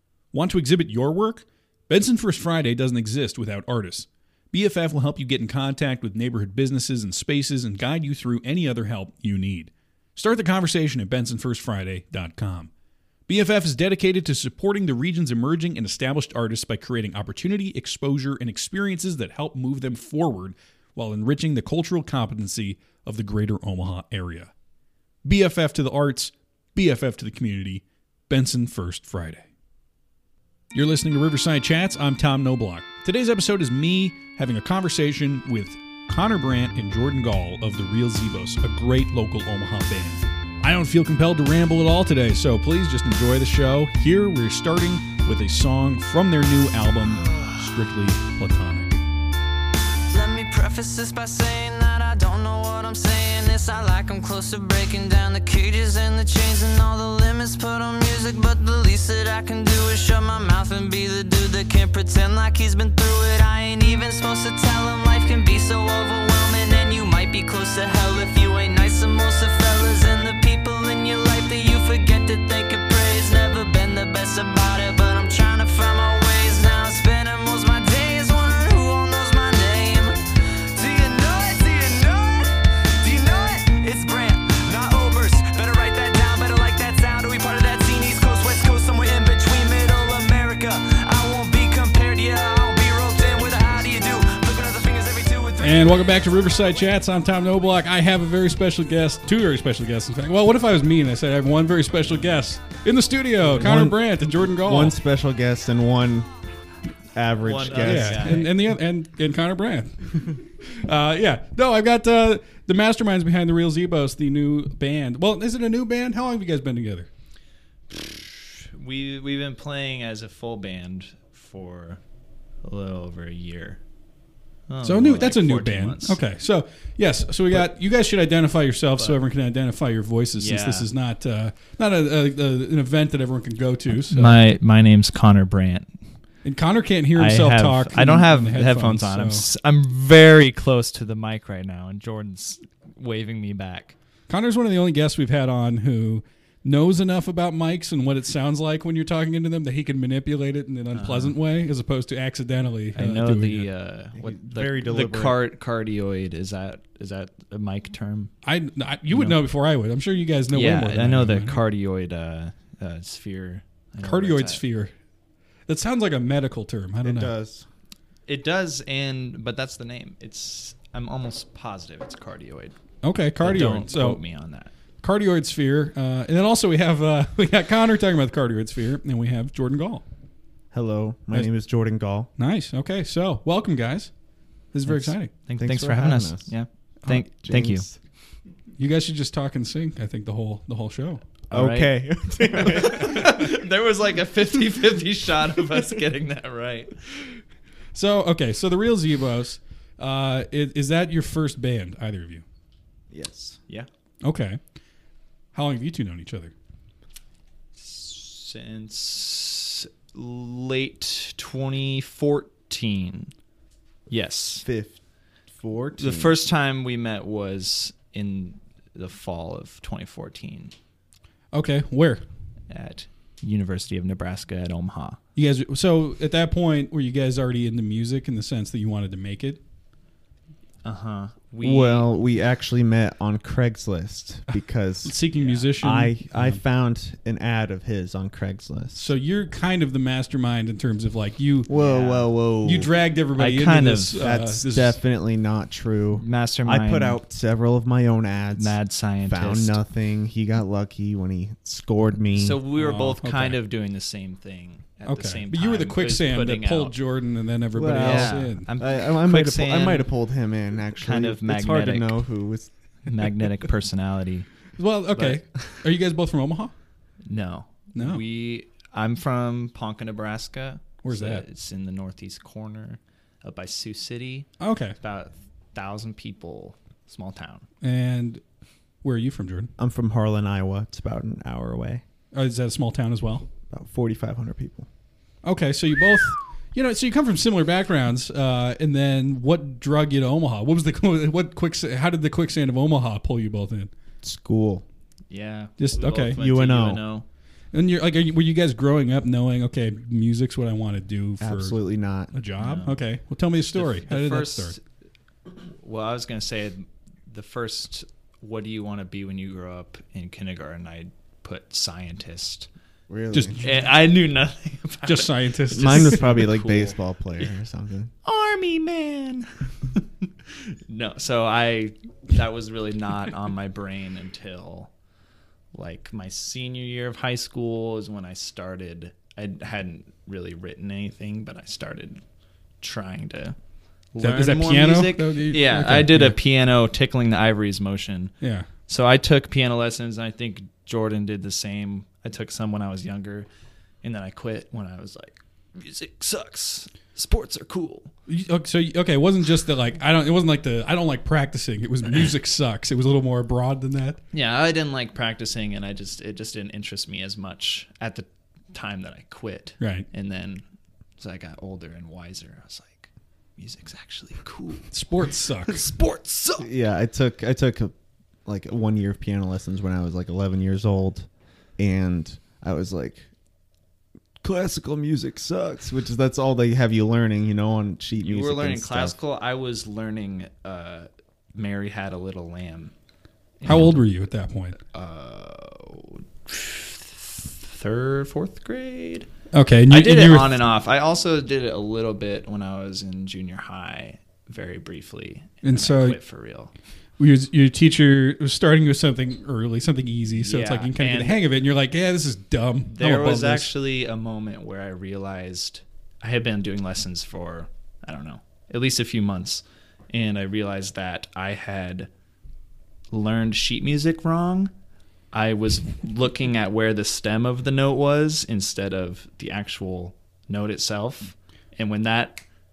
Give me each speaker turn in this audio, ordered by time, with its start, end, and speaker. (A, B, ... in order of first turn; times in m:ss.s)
0:00.3-0:12.7 A
0:13.3-0:24.5 A
0:25.2-0:29.5 A
0:30.7-0:49.0 A
0:50.1-1:36.0 B
1:35.6-1:45.0 A
1:43.4-1:44.0 C
1:44.6-1:46.3 C
1:47.1-1:48.4 C
1:47.4-1:48.5 D
1:47.8-1:57.1 A
1:57.9-2:02.0 D
2:02.6-2:03.8 D
2:04.7-2:06.2 D
2:04.8-2:14.4 A
2:10.4-2:10.9 D
2:14.1-2:15.9 D
2:16.4-2:19.4 A
2:17.1-2:24.0 D
2:24.3-2:33.7 A
2:30.9-2:31.3 D
2:32.9-2:38.3 D
2:34.1-2:35.4 C
2:38.4-2:41.6 A
2:39.1-2:39.4 D
2:40.5-2:44.6 D
2:44.0-2:44.9 A
2:45.7-2:47.3 A
2:47.0-2:47.7 C
2:48.3-2:52.8 D
2:53.0-2:54.2 A
2:53.4-2:54.7 D
2:55.0-3:00.0 A
3:00.7-3:02.3 C
3:02.4-3:04.1 A
3:04.7-3:05.3 A
3:04.9-3:06.5 C
3:05.4-3:07.8 D
3:07.1-3:08.0 C
3:08.8-3:11.2 A
3:11.5-3:17.0 D
3:11.5-3:13.5 C
3:17.9-3:22.4 A
3:23.1-3:23.6 C
3:24.2-3:24.6 A
3:25.5-3:26.5 A
3:27.8-3:33.3 D
3:34.1-3:34.6 D
3:34.6-3:35.0 C
3:35.5-3:36.4 C
3:36.0-3:40.7 D
3:41.5-3:42.2 A
3:42.7-3:45.2 D
3:45.4-3:49.6 A
3:50.8-3:52.1 D
3:51.6-3:55.2 C
3:55.0-3:56.6 A
3:55.4-3:55.6 D
3:55.8-3:59.1 C
3:58.9-4:01.7 A
4:01.7-4:02.9 C
4:01.7-4:02.3 D
4:02.6-4:05.0 A
4:03.4-4:04.2 D
4:04.2-4:12.6 C
4:06.1-4:07.2 D
4:08.6-4:09.8 D
4:12.3-4:16.9 D
4:12.7-4:13.6 A
4:15.1-4:18.7 A
4:17.7-4:22.7 C
4:17.9-4:20.1 D
4:21.0-4:22.2 D
4:23.0-4:24.5 D
4:24.8-4:26.7 A
4:27.2-4:37.6 D
4:27.9-4:28.2 A
4:31.0-4:31.4 A
4:34.6-4:35.0 A
4:37.8-4:38.4 A
4:39.0-4:39.7 A
4:39.8-4:42.0 C
4:42.3-4:43.5 A
4:43.7-4:44.9 C
4:45.4-4:53.9 A
4:54.2-4:54.8 C
4:55.3-4:57.2 D
4:55.8-4:56.4 A
4:56.4-4:57.0 C
4:57.7-5:01.8 A
5:01.4-5:02.3 C
5:02.3-5:04.8 A
5:02.6-5:03.0 D
5:03.7-5:04.8 D
5:05.7-5:12.7 D
5:13.1-5:13.6 C
5:13.3-5:13.7 A
5:13.6-5:17.5 D
5:15.0-5:16.2 A
5:15.7-5:18.1 C
5:18.2-5:24.9 D
5:25.7-5:32.2 D
5:32.8-5:33.6 D
5:34.1-5:38.3 D
5:34.2-5:36.4 A
5:38.4-5:38.7 A
5:38.9-5:43.5 D
5:44.0-5:48.1 D
5:48.3-5:54.2 A
5:54.3-6:00.6 D
5:59.8-6:00.1 A
6:01.2-6:05.0 D
6:04.9-6:05.8 A
6:05.6-6:06.7 D
6:06.6-6:07.9 C
6:08.4-6:13.3 C
6:14.4-6:19.2 C
6:18.2-6:22.9 D
6:23.6-6:24.0 D
6:23.6-6:24.8 A
6:24.9-6:29.3 D
6:29.5-6:30.5 A
6:29.9-6:36.7 D
6:35.6-6:36.2 A
6:37.2-6:43.7 A
6:40.3-6:41.4 D
6:42.9-6:52.1 D
6:53.1-6:54.7 D
6:55.3-7:02.4 D